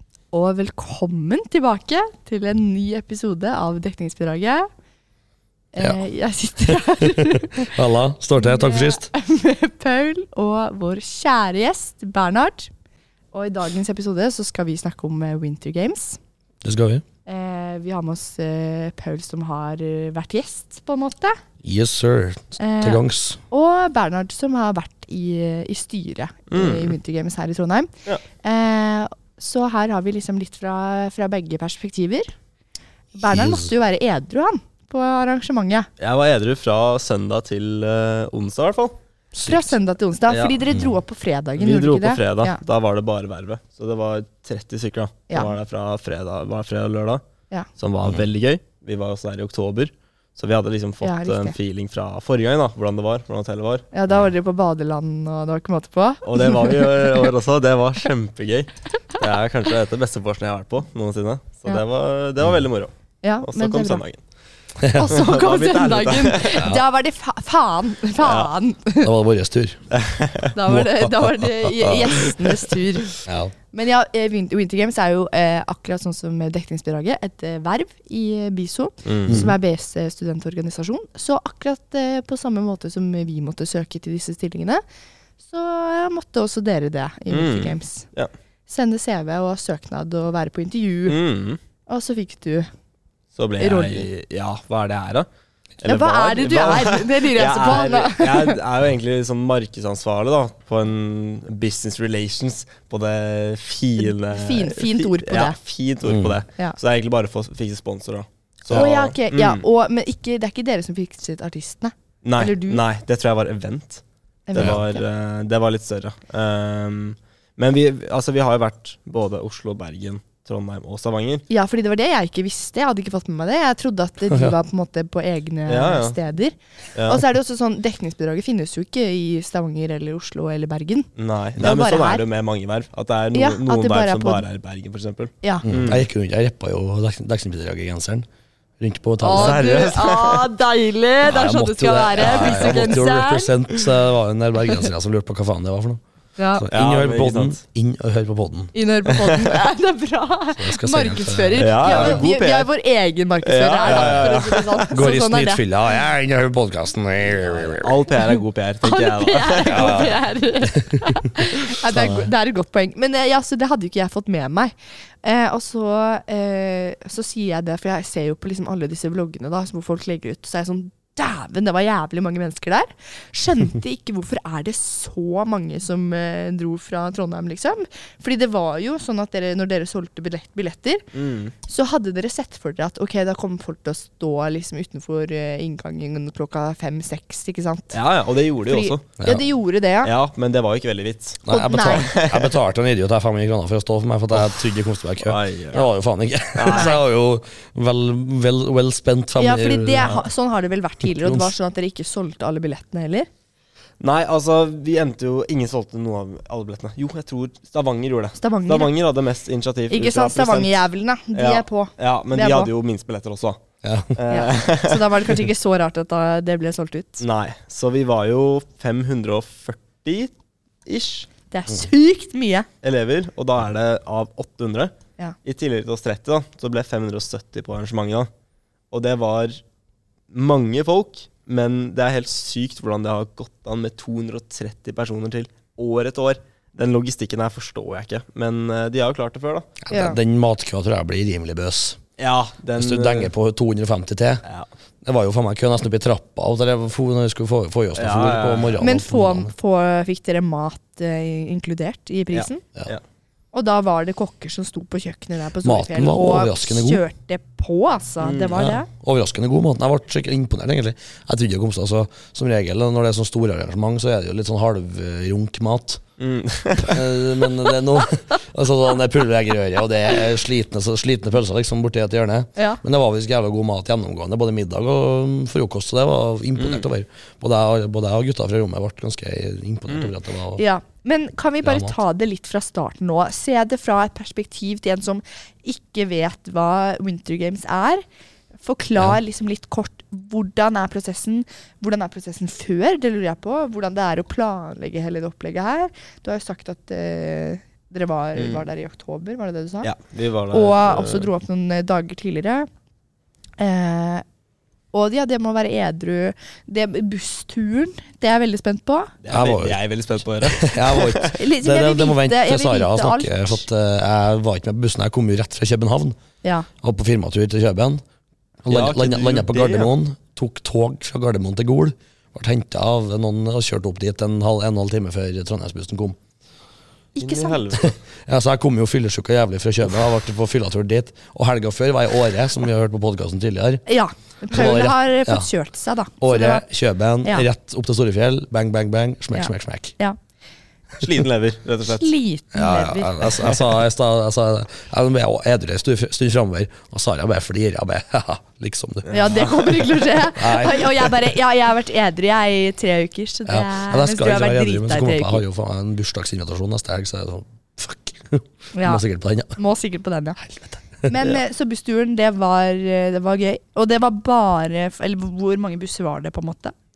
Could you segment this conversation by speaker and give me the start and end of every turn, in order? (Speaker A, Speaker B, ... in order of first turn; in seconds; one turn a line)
Speaker A: 0.3-4.7
Speaker A: 5.7-7.8
Speaker B: 6.7-9.1
Speaker A: 8.4-12.7
Speaker A: 13.3-16.2
Speaker B: 16.6-17.0
Speaker A: 17.2-21.4
Speaker B: 21.6-23.4
Speaker A: 22.6-27.9
Speaker C: 26.5-26.9
Speaker A: 28.4-32.3
Speaker A: 33.1-35.9
Speaker B: 33.3-33.7
Speaker C: 36.0-39.0
Speaker B: 39.4-39.7
Speaker A: 39.4-42.6
Speaker C: 40.3-40.6
Speaker C: 41.6-47.2
Speaker C: 47.8-53.9
Speaker A: 51.0-51.5
Speaker A: 53.9-57.3
Speaker C: 56.2-62.9
Speaker A: 63.2-64.0
Speaker C: 63.4-64.2
Speaker B: 64.8-65.2
Speaker A: 64.9-69.1
Speaker C: 65.1-66.7
Speaker C: 68.2-68.5
Speaker B: 69.0-69.8
Speaker C: 69.9-70.5
Speaker A: 70.5-73.1
Speaker B: 70.6-72.2
Speaker B: 73.2-73.5
Speaker A: 73.7-84.8
Speaker C: 79.0-79.5
Speaker B: 79.3-79.5
Speaker A: 85.5-88.1
Speaker C: 87.3-88.3
Speaker A: 88.7-91.2
Speaker C: 91.0-91.6
Speaker A: 91.9-92.7
Speaker C: 93.3-95.3
Speaker A: 93.6-94.1
Speaker C: 95.8-109.6
Speaker A: 95.8-98.6
Speaker A: 104.0-105.6
Speaker B: 106.0-106.4
Speaker A: 108.7-112.8
Speaker C: 112.2-114.0
Speaker A: 114.5-115.0
Speaker C: 114.5-121.5
Speaker B: 114.5-114.8
Speaker A: 121.5-132.2
Speaker C: 125.7-126.2
Speaker C: 126.9-127.2
Speaker C: 131.2-136.0
Speaker A: 133.3-134.4
Speaker B: 135.6-138.3
Speaker B: 138.8-139.9
Speaker A: 139.2-143.5
Speaker C: 139.3-140.5
Speaker B: 141.2-146.0
Speaker C: 142.2-142.9
Speaker A: 146.4-146.7
Speaker B: 146.5-148.7
Speaker C: 146.7-147.6
Speaker A: 148.7-155.6
Speaker C: 149.1-149.5
Speaker B: 150.6-152.2
Speaker C: 151.6-152.7
Speaker C: 153.4-154.9
Speaker B: 153.9-154.3
Speaker B: 154.9-157.9
Speaker C: 157.7-160.1
Speaker A: 158.2-181.0
Speaker B: 159.7-160.2
Speaker B: 160.7-161.3
Speaker B: 161.8-162.2
Speaker C: 181.1-181.5
Speaker A: 181.6-188.0
Speaker C: 187.9-189.1
Speaker A: 188.7-190.1
Speaker C: 190.0-192.6
Speaker B: 191.4-200.1
Speaker A: 191.5-192.1
Speaker C: 194.3-194.6
Speaker C: 195.2-195.9
Speaker C: 196.5-196.9
Speaker A: 196.7-197.0
Speaker A: 199.4-203.3
Speaker B: 201.0-201.5
Speaker C: 204.0-210.7
Speaker A: 208.4-208.9
Speaker A: 209.9-212.7
Speaker C: 211.3-213.6
Speaker B: 213.8-214.2
Speaker C: 214.1-215.3
Speaker A: 214.3-217.2
Speaker C: 217.2-220.3
Speaker C: 220.8-221.3
Speaker A: 221.5-222.7
Speaker C: 222.8-224.9
Speaker C: 225.4-228.3
Speaker C: 228.9-229.6
Speaker C: 230.3-239.8
Speaker B: 239.8-242.0
Speaker A: 239.9-240.2
Speaker C: 242.2-243.3
Speaker B: 242.8-244.4
Speaker B: 245.0-249.5
Speaker C: 247.9-248.8
Speaker A: 248.8-252.6
Speaker C: 252.3-253.0
Speaker A: 253.5-258.9
Speaker B: 255.6-257.0
Speaker C: 258.2-258.6
Speaker B: 258.5-266.0
Speaker C: 266.2-267.4
Speaker B: 266.8-280.6
Speaker A: 272.6-272.8
Speaker C: 276.6-276.8
Speaker A: 280.6-288.0
Speaker B: 281.6-281.9
Speaker A: 288.6-299.9
Speaker C: 298.3-298.6
Speaker C: 299.8-301.3
Speaker A: 300.5-302.7
Speaker A: 303.6-304.2
Speaker A: 304.9-309.1
Speaker C: 309.2-311.3
Speaker B: 309.3-309.8
Speaker B: 310.4-316.2
Speaker A: 311.3-313.6
Speaker B: 316.8-318.0
Speaker B: 318.6-326.2
Speaker C: 318.7-319.9
Speaker A: 327.1-327.6
Speaker C: 327.2-327.9
Speaker B: 327.8-333.8
Speaker A: 333.9-336.6
Speaker B: 334.5-335.5
Speaker B: 336.2-339.9
Speaker A: 339.3-340.2
Speaker C: 341.0-342.2
Speaker A: 341.8-343.4
Speaker B: 342.5-349.1
Speaker C: 349.1-349.9
Speaker A: 349.1-355.4
Speaker B: 350.4-351.1
Speaker B: 353.5-359.6
Speaker A: 358.7-359.0
Speaker A: 359.6-360.4
Speaker B: 360.4-361.1
Speaker A: 361.1-366.7